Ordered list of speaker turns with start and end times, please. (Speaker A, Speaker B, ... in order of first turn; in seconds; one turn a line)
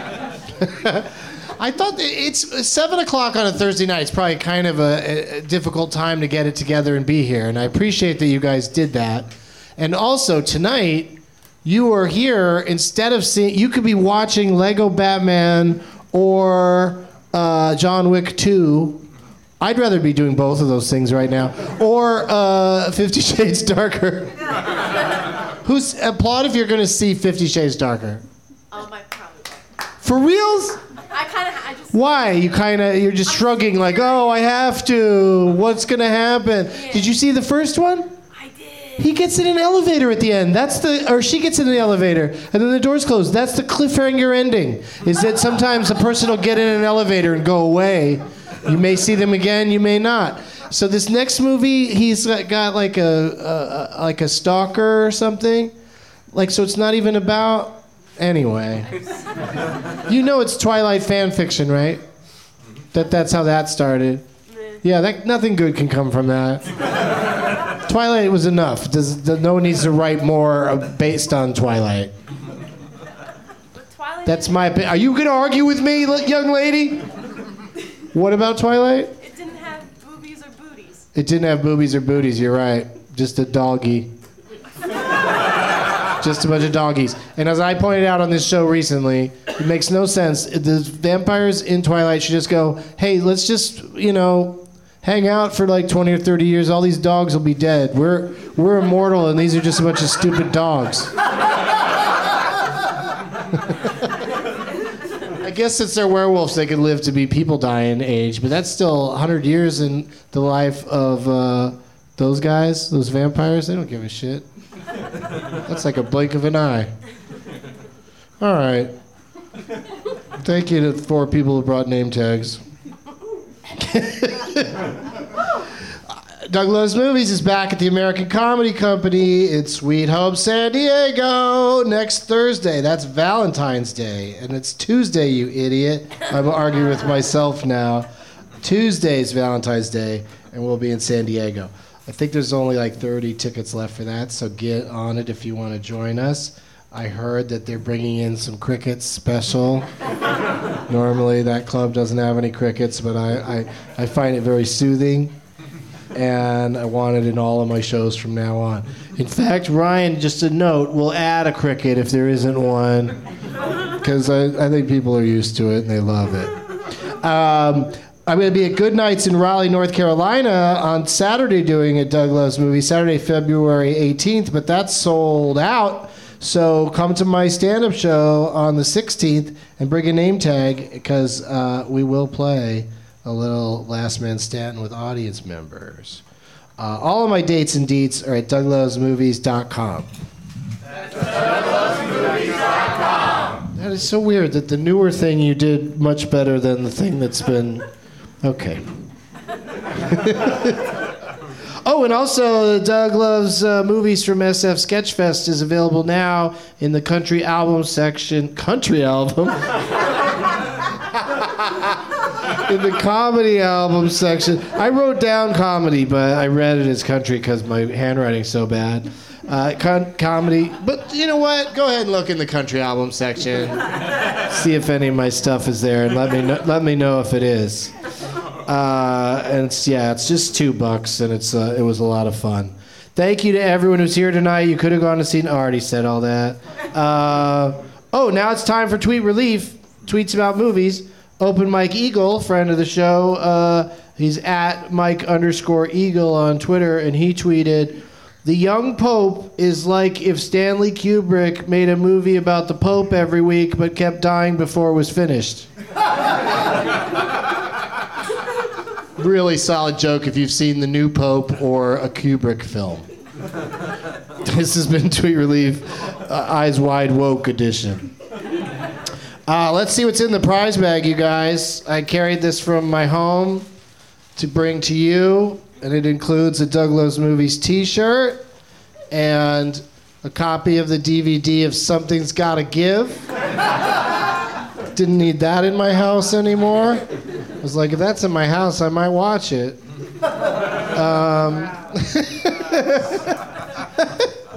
Speaker A: 0.6-19.0
Speaker A: 19.6-24.4
Speaker A: 25.6-28.2
Speaker B: 28.7-29.6
Speaker A: 30.0-30.8
Speaker B: 31.1-32.4
Speaker A: 31.9-38.1
Speaker B: 33.3-34.5
Speaker B: 36.7-37.1
Speaker B: 38.3-39.2
Speaker A: 39.0-55.7
Speaker A: 56.3-59.0
Speaker B: 58.9-59.5
Speaker A: 60.1-62.0
Speaker A: 62.9-64.2
Speaker A: 64.8-66.6
Speaker A: 67.8-72.1
Speaker B: 73.7-75.1
Speaker A: 74.2-77.1
Speaker A: 78.1-79.1
Speaker B: 79.2-81.1
Speaker A: 81.1-84.1
Speaker A: 86.2-101.1
Speaker A: 105.4-114.5
Speaker A: 115.6-116.9
Speaker A: 118.4-118.9
Speaker A: 120.4-122.6
Speaker A: 123.8-124.9
Speaker A: 126.4-138.1
Speaker A: 138.6-149.9
Speaker A: 150.9-155.3
Speaker A: 156.1-163.2
Speaker A: 164.0-166.5
Speaker A: 167.2-186.2
Speaker A: 186.8-190.1
Speaker A: 193.7-197.8
Speaker A: 198.4-198.8
Speaker A: 200.0-200.8
Speaker A: 201.8-209.7
Speaker A: 212.5-223.8
Speaker A: 224.5-227.9
Speaker A: 228.7-255.7
Speaker A: 259.2-263.1
Speaker A: 264.4-268.1
Speaker A: 269.5-273.7
Speaker A: 274.4-278.4
Speaker A: 279.1-283.3
Speaker A: 284.9-287.1
Speaker A: 287.6-289.8
Speaker A: 290.9-293.4
Speaker A: 294.0-294.2